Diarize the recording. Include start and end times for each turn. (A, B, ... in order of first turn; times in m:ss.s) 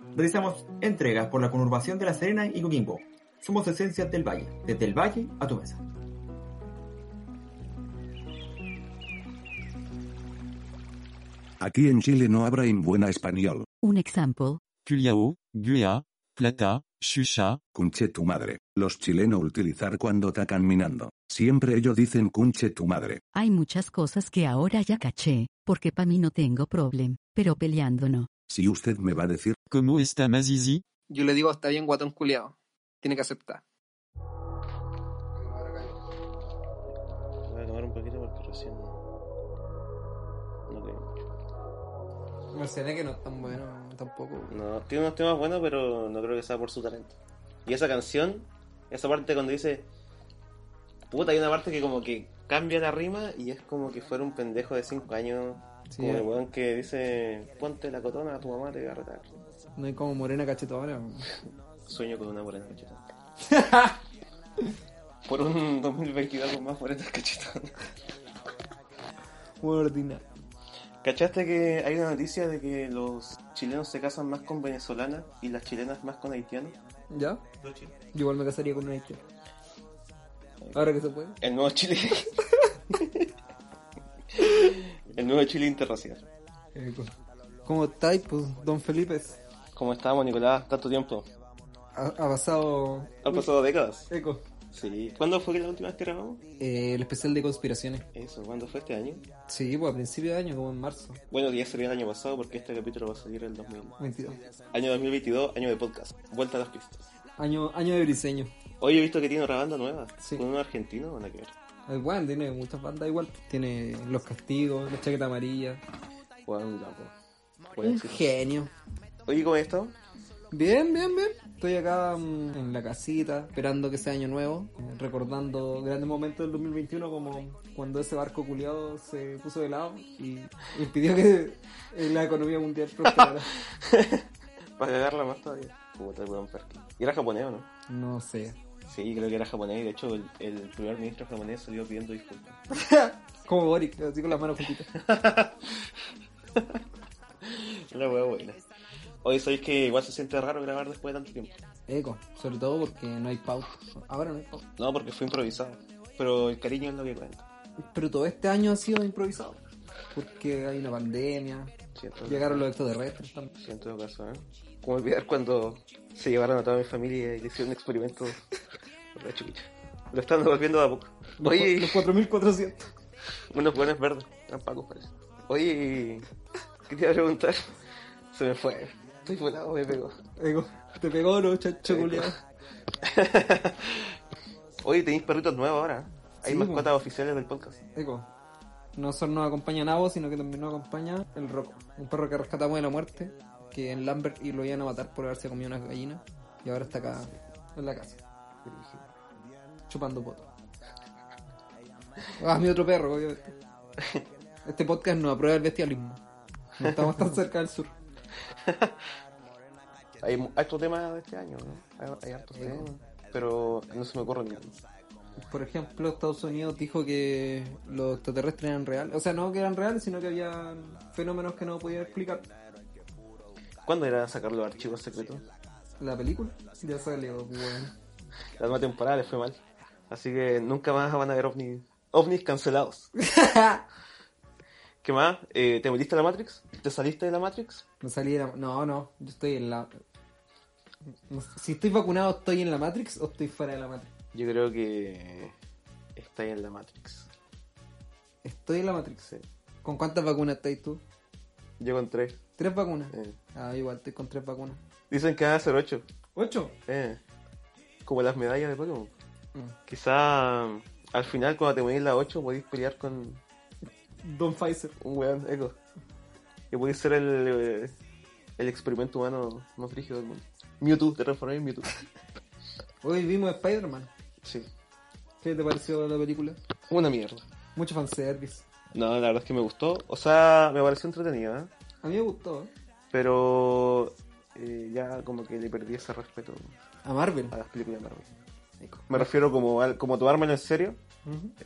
0:00.1-0:05.8 A
0:11.6-0:13.7 B
0:13.8-0:14.6 C
0:14.7-0:17.6 D
0:17.7-0:23.2 B
0:23.3-0:28.3 C
0:28.5-0:29.6 B
0:29.7-0:30.8 D
0:31.1-0:33.6 E
0:35.5-0:35.9 E
0:37.4-0:39.0 F
0:40.7-0:41.1 F
0:42.5-0:44.5 E
0:44.5-0:49.9 F
0:51.1-0:59.3 F
0:55.9-0:56.3 E
0:59.8-1:01.3 E
1:01.8-1:03.0 F
1:03.5-1:04.0 E
1:05.2-1:07.8 F
1:09.6-1:10.2 E
1:11.0-1:16.8 F
1:17.1-1:17.4 E
1:17.6-1:17.9 F
1:18.1-1:19.2 E
1:20.7-1:21.4 E
1:21.4-1:22.4 F
1:22.9-1:23.2 F
1:24.3-1:26.2 F
1:26.8-1:27.1 E
1:27.7-1:29.4 E
1:29.8-1:31.3 F
1:31.9-1:33.5 E
1:33.2-1:34.1 F
1:34.1-1:34.4 E
1:34.7-1:36.4 F
1:36.6-1:38.0 E
1:38.1-1:39.2 F
1:39.5-1:41.2 E
1:41.3-1:44.0 F
1:44.0-1:44.4 E
1:44.7-1:47.1 F
1:47.4-1:48.5 E
1:48.8-1:51.5 F
1:50.2-1:50.4 E
1:51.9-1:55.8 E
1:56.5-1:57.1 F
1:57.8-1:58.3 F
1:57.8-1:58.7 E
1:59.2-2:00.0 F
2:00.5-2:13.5 E
2:13.1-2:14.2 F
2:14.8-2:17.7 F
2:17.9-2:18.6 E
2:18.9-2:22.6 F
2:22.7-2:24.9 E
2:24.9-2:25.8 F
2:26.6-2:26.8 F
2:27.4-2:28.6 F
2:29.2-2:31.6 F
2:31.9-2:34.6 E
2:34.8-2:37.4 F
2:37.9-2:39.6 E
2:40.1-2:41.7 E
2:42.0-2:42.7 F
2:42.2-2:43.5 E
2:43.6-2:48.5 F
2:49.1-2:52.1 F
2:51.4-2:52.9 E
2:53.5-2:56.3 F
2:56.9-2:57.8 F
2:58.3-3:00.2 F
3:00.4-3:02.4 E
3:01.9-3:02.4 F
3:03.0-3:04.2 F
3:04.8-3:07.8 F
3:06.4-3:06.9 E
3:08.0-3:08.3 E
3:09.0-3:18.2 E
3:18.6-3:19.1 F
3:19.9-3:20.5 E
3:22.4-3:23.5 E
3:24.0-3:24.2 F
3:24.6-3:26.2 E
3:26.8-3:28.0 E
3:26.8-3:27.2 F
3:28.6-3:28.9 F
3:30.2-3:34.8 F
3:32.6-3:32.9 E
3:35.4-3:42.5 E
3:43.8-3:45.4 F
3:46.0-3:47.9 E
3:48.6-3:53.1 F
3:53.2-3:53.8 E
3:55.0-3:57.8 F
3:58.0-4:00.0 E
4:01.3-4:04.1 E
4:04.3-4:05.5 F
4:06.2-4:07.3 F
4:08.4-4:09.2 E
4:09.8-4:11.0 E
4:11.8-4:12.4 F
4:12.6-4:14.8 E
4:13.1-4:13.4 F
4:15.1-4:16.0 F
4:16.4-4:16.7 E
4:16.9-4:17.2 F
4:18.1-4:19.1 F
4:19.9-4:23.4 F
4:24.2-4:25.0 E
4:25.0-4:25.8 F
4:26.7-4:27.9 F
4:28.6-4:31.9 F
4:33.0-4:34.1 E
4:34.4-4:34.7 F
4:35.4-4:36.6 E
4:36.9-4:37.4 F
4:37.8-4:38.6 E
4:38.9-4:41.7 F
4:42.0-4:42.7 E
4:43.1-4:46.8 F
4:47.0-4:47.5 E
4:47.5-4:48.3 F
4:48.8-4:49.3 E
4:49.1-4:51.0 F
4:51.2-4:51.5 E